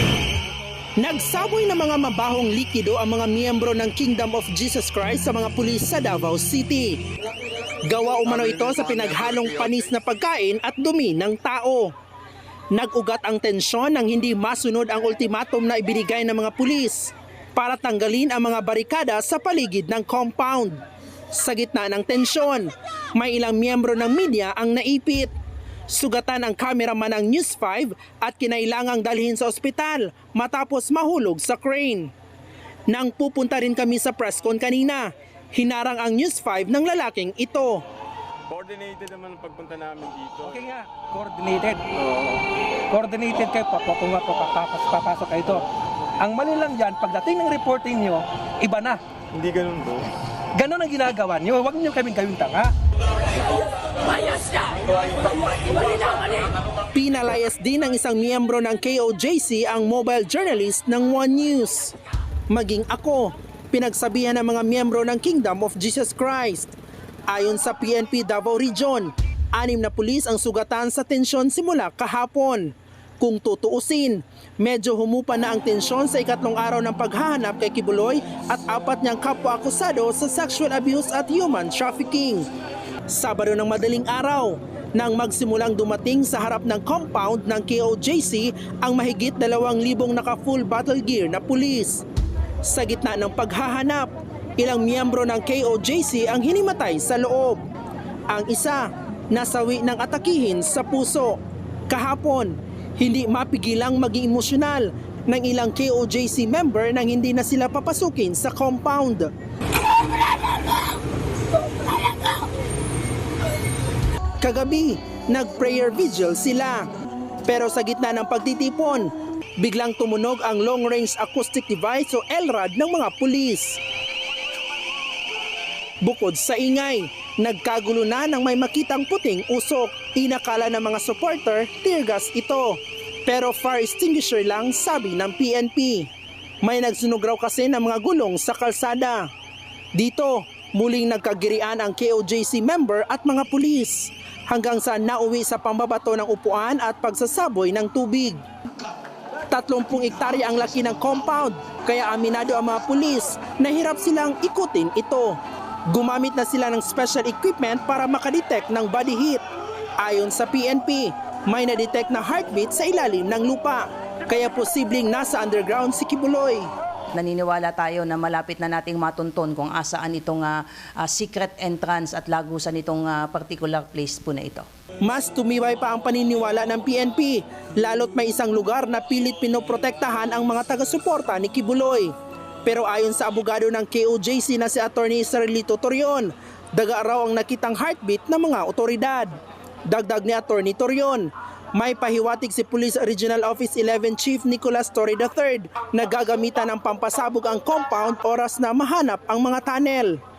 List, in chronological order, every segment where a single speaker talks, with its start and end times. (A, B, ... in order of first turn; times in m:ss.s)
0:01.0-0:07.0 A
0:07.8-0:11.9 A
0:12.7-0:20.8 A
0:21.3-0:25.3 A
0:25.9-0:32.1 A
0:32.9-0:37.8 A
0:38.5-0:40.8 B
0:40.4-0:41.9 C
0:42.0-0:42.3 B
0:42.9-0:45.6 C
0:46.2-0:49.0 C
0:49.3-0:50.1 B
0:50.6-0:52.7 C
0:56.9-1:01.9 A
1:02.5-1:06.7 A
1:07.3-1:22.4 A
1:23.1-1:32.0 A
1:32.6-1:37.6 A
1:38.3-1:41.4 A
1:41.9-1:49.3 A
1:54.4-1:56.9 A
1:57.5-2:03.8 A
2:06.0-2:16.1 A
2:16.6-2:19.3 A
2:20.0-2:28.4 A
2:29.5-2:39.4 A
2:40.0-2:46.7 A
2:47.1-2:54.7 D
2:55.0-3:02.1 A
3:02.6-3:09.3 A
3:09.9-3:20.2 A